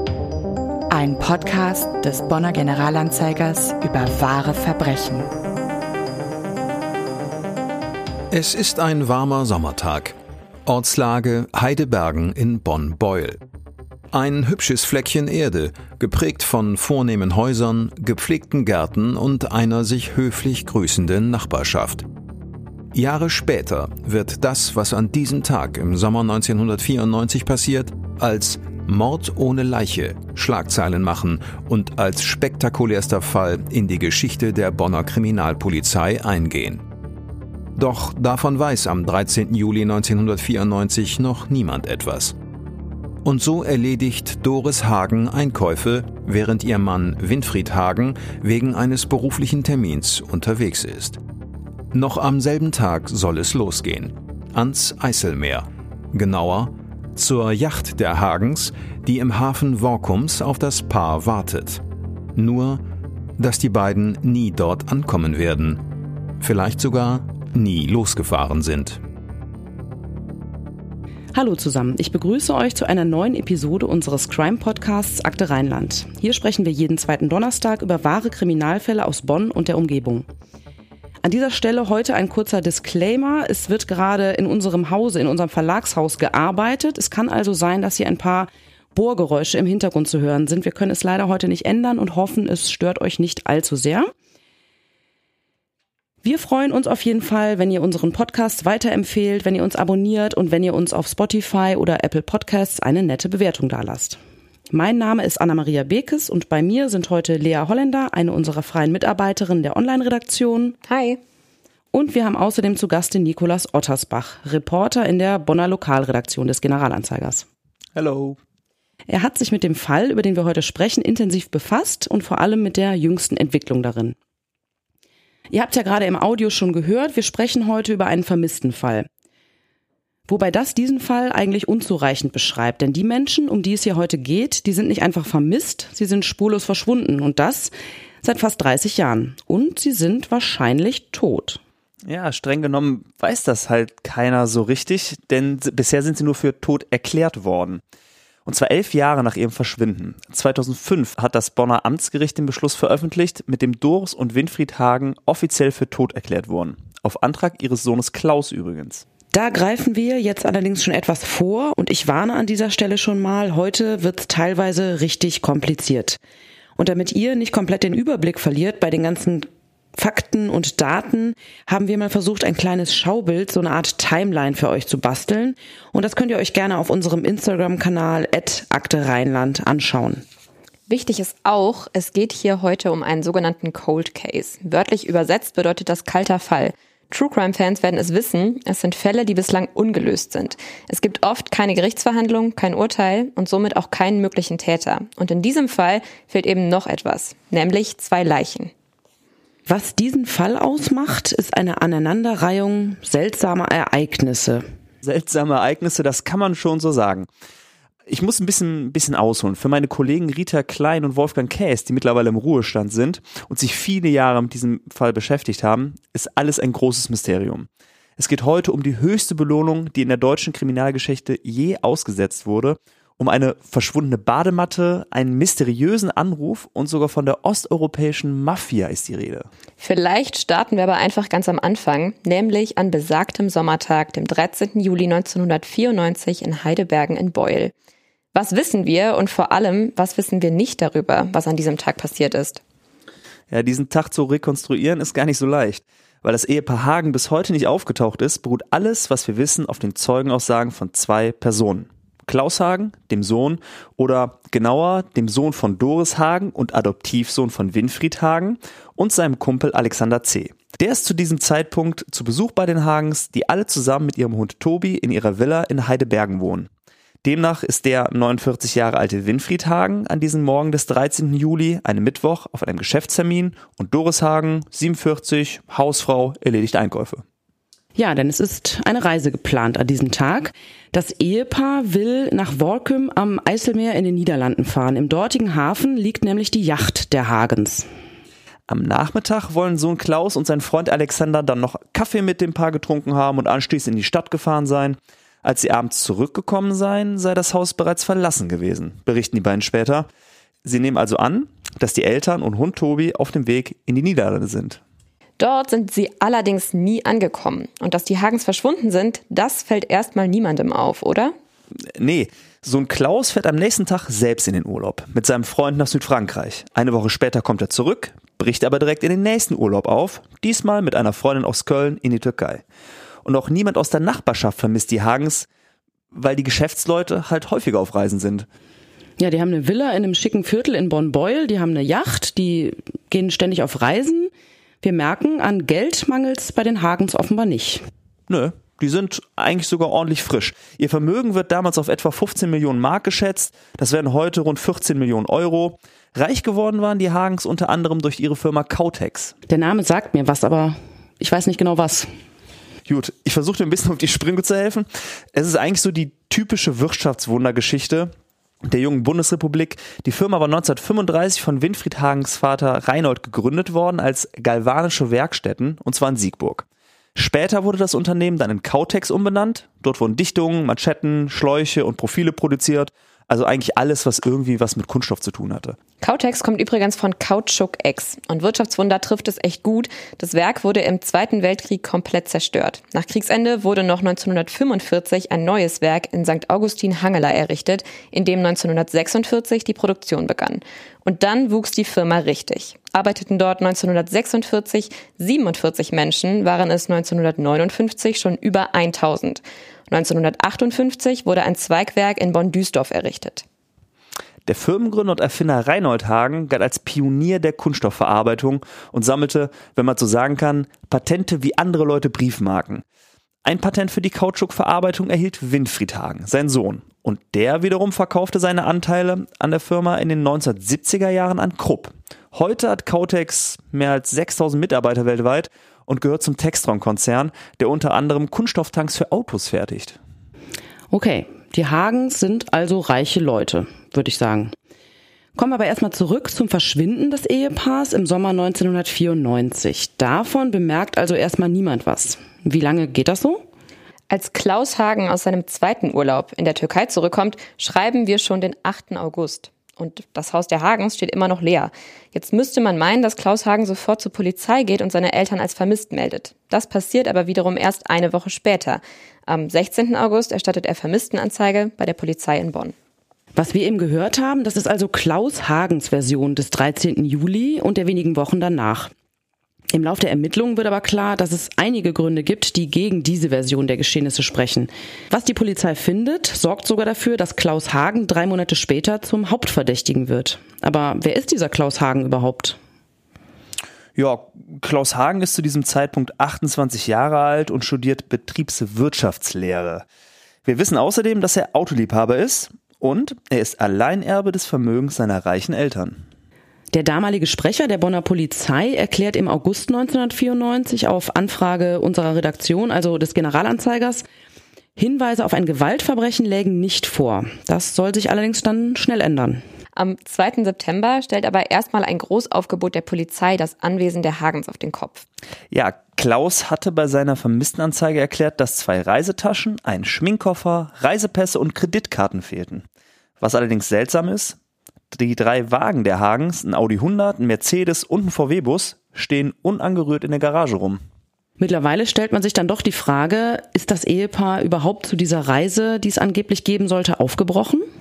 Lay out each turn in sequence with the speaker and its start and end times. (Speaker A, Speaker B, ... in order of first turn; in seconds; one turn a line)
Speaker A: 0.9-5.3
Speaker B: 8.3-13.4
Speaker B: 14.1-22.1
Speaker B: 22.9-36.8
Speaker B: 37.8-42.4
Speaker B: 43.2-51.2
Speaker B: 51.9-61.8
Speaker B: 62.3-62.8
Speaker B: 63.4-65.8
Speaker B: 66.4-69.0
Speaker C: 71.3-80.3
Speaker C: 81.2-94.1
Speaker C: 96.2-104.2
Speaker C: 104.7-110.8
Speaker D: 110.9-111.2
Speaker C: 111.9-117.5
Speaker E: 118.0-118.4
Speaker C: 119.1-124.2
Speaker C: 125.5-129.1
Speaker C: 130.3-141.6
Speaker E: 142.0-147.8
Speaker E: 148.4-159.0
Speaker C: 159.3-166.2
Speaker C: 166.8-180.2
Speaker D: 180.9-198.7
Speaker C: 199.7-204.6
Speaker E: 205.0-207.3
Speaker E: 208.1-229.5
Speaker D: 229.8-237.7
Speaker D: 238.3-242.6
Speaker E: 243.5-266.7
Speaker E: 267.2-277.2
Speaker C: 277.9-287.9
Speaker E: 288.7-300.1
Speaker E: 300.6-304.8
Speaker D: 305.4-311.3
Speaker E: 311.9-322.6
Speaker E: 323.2-325.5
Speaker E: 326.1-328.5
Speaker C: 329.2-334.3
Speaker C: 334.8-337.8
Speaker E: 338.3-349.3
Speaker C: 349.5-352.1
Speaker E: 352.9-358.1
Speaker E: 358.6-366.6
Speaker E: 367.1-375.8
Speaker D: 376.0-403.4
Speaker E: 404.4-412.8
Speaker E: 413.4-430.0
Speaker C: 430.9-434.5
Speaker C: 435.4-443.4
Speaker D: 444.1-462.7
Speaker C: 463.3-468.9
Speaker C: 469.7-482.6
Speaker E: 483.9-489.8
Speaker E: 490.4-496.0
Speaker C: 496.7-504.0
Speaker C: 504.8-509.4
Speaker D: 509.7-515.0
Speaker E: 515.5-522.6
Speaker E: 523.2-524.4
Speaker E: 524.9-530.8
Speaker C: 531.4-537.6